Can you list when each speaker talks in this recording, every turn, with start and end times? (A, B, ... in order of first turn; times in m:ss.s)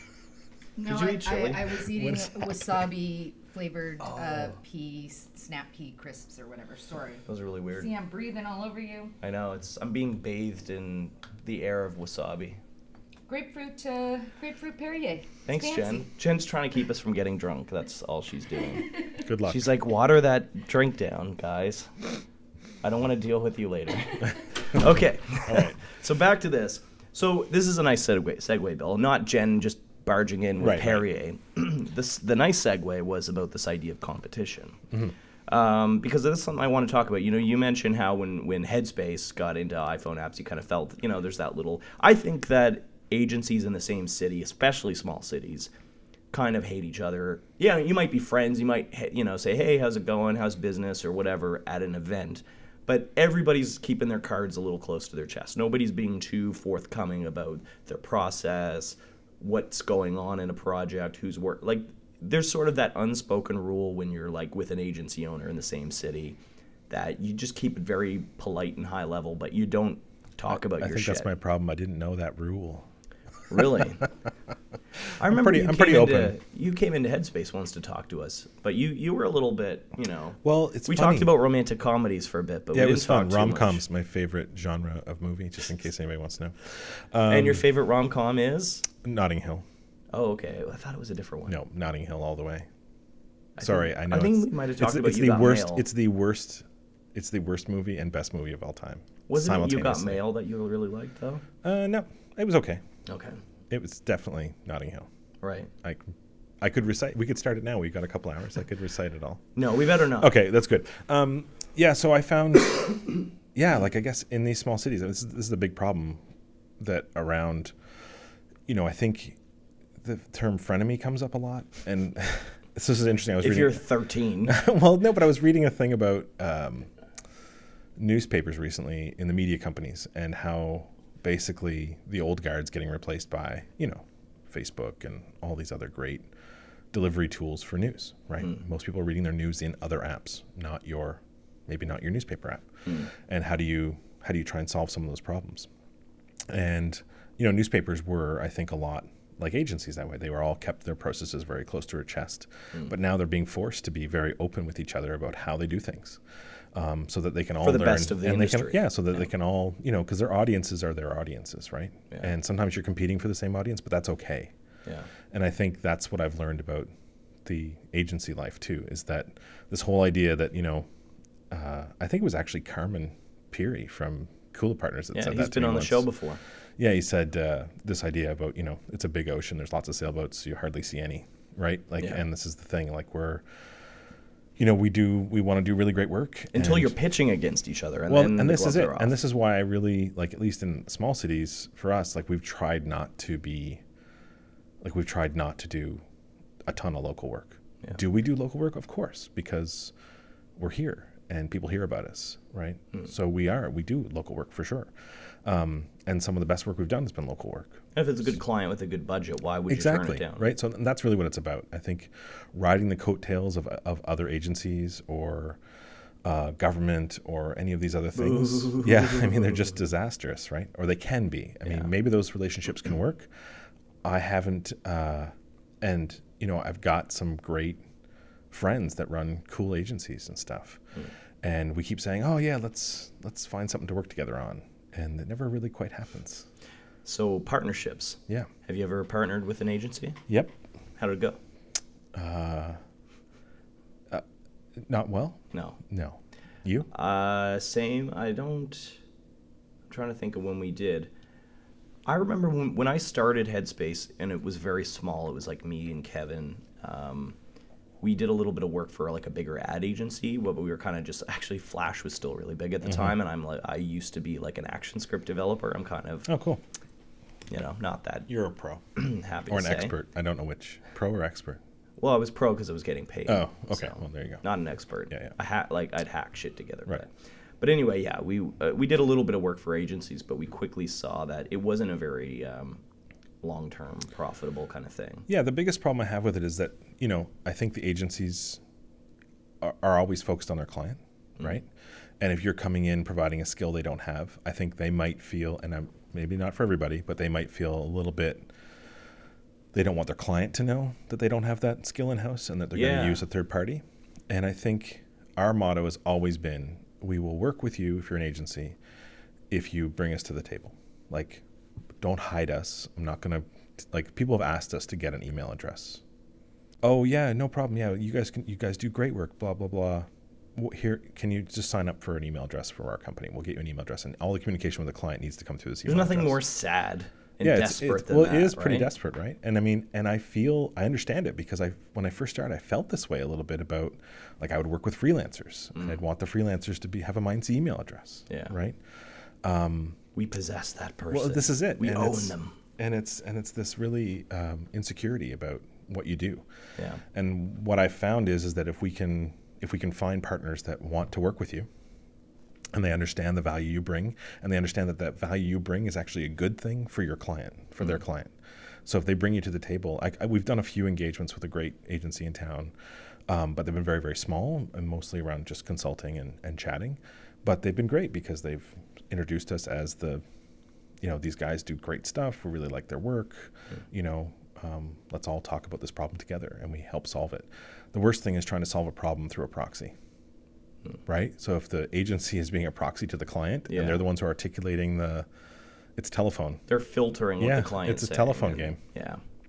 0:00.8-0:09.1 A
0:00.8-0:01.8 B
0:01.9-0:02.6 C
0:04.0-0:04.6 B
0:07.2-0:07.9 B
0:09.2-0:12.6 B
0:13.3-0:16.1 A
0:15.5-0:18.9 B
0:19.2-0:19.6 C
0:19.4-0:21.9 B
0:22.8-0:34.8 B
0:25.5-0:25.8 C
0:30.6-0:31.0 C
0:35.5-0:45.7 B
0:46.3-1:06.4 B
1:06.9-1:11.3 B
1:10.5-1:12.9 C
1:13.5-1:14.1 B
1:15.2-1:23.8 B
1:15.2-1:16.3 C
1:20.4-1:21.3 C
1:22.7-1:27.6 C
1:27.3-1:28.9 B
1:29.0-1:29.6 C
1:30.1-1:31.6 B
1:31.5-1:32.7 C
1:33.6-1:35.8 B
1:33.6-1:40.2 C
1:39.3-1:41.4 B
1:41.6-1:42.8 C
1:43.1-1:43.4 B
1:43.7-1:45.1 C
1:45.4-1:45.7 B
1:45.8-1:49.5 C
1:49.6-1:50.3 B
1:50.1-1:56.2 C
1:56.8-1:57.7 C
1:58.7-1:59.4 C
2:00.0-2:03.8 C
2:03.4-2:04.6 B
2:04.4-2:06.9 C
2:08.0-2:16.3 C
2:16.9-2:25.7 C
2:26.5-2:36.2 C
2:36.7-2:44.5 C
2:37.6-2:38.9 B
2:45.3-2:46.9 C
2:47.4-2:50.9 C
2:51.5-2:56.1 C
2:55.1-2:56.4 B
2:56.8-3:03.4 C
3:04.6-3:06.9 C
3:06.5-3:09.2 B
3:08.1-3:13.8 C
3:14.8-3:16.0 C
3:16.7-3:19.9 C
3:20.6-3:27.8 C
3:27.9-3:30.4 B
3:29.7-3:35.6 C
3:36.2-3:43.5 C
3:38.1-3:39.6 B
3:44.0-3:47.8 C
3:48.5-3:50.8 C
3:51.4-3:56.5 C
3:57.0-4:00.2 B
4:00.3-4:00.5 C
4:01.0-4:01.4 B
4:02.1-4:02.8 C
4:04.8-4:06.9 C
4:05.5-4:05.8 B
4:06.9-4:09.0 B
4:09.9-4:11.1 B
4:12.0-4:17.4 B
4:18.0-4:26.3 B
4:26.3-4:26.6 C
4:27.5-4:28.3 B
4:28.3-4:28.8 C
4:29.0-4:29.9 B
4:29.5-4:31.6 C
4:32.0-4:37.1 B
4:33.3-4:34.4 C
4:37.6-4:42.8 B
4:43.4-4:45.2 B
4:45.3-4:48.6 C
4:49.6-4:51.7 C
4:52.2-4:58.5 C
4:59.7-5:08.8 C
5:02.7-5:03.2 B
5:09.5-5:11.4 C
5:12.0-5:16.0 C
5:16.8-5:26.4 C
5:25.8-5:28.9 B
5:27.4-5:38.8 C
5:35.7-5:36.0 B
5:38.3-5:38.5 B
5:39.4-5:40.0 C
5:40.1-5:42.5 B
5:41.1-5:46.4 C
5:46.8-5:47.0 B
5:47.0-5:51.7 C
5:52.7-5:58.3 C
5:58.8-6:02.7 C
6:03.3-6:10.2 C
6:11.0-6:19.9 C
6:21.0-6:25.3 C
6:23.7-6:24.0 B
6:26.0-6:26.6 C
6:26.7-6:29.2 B
6:27.4-6:28.8 C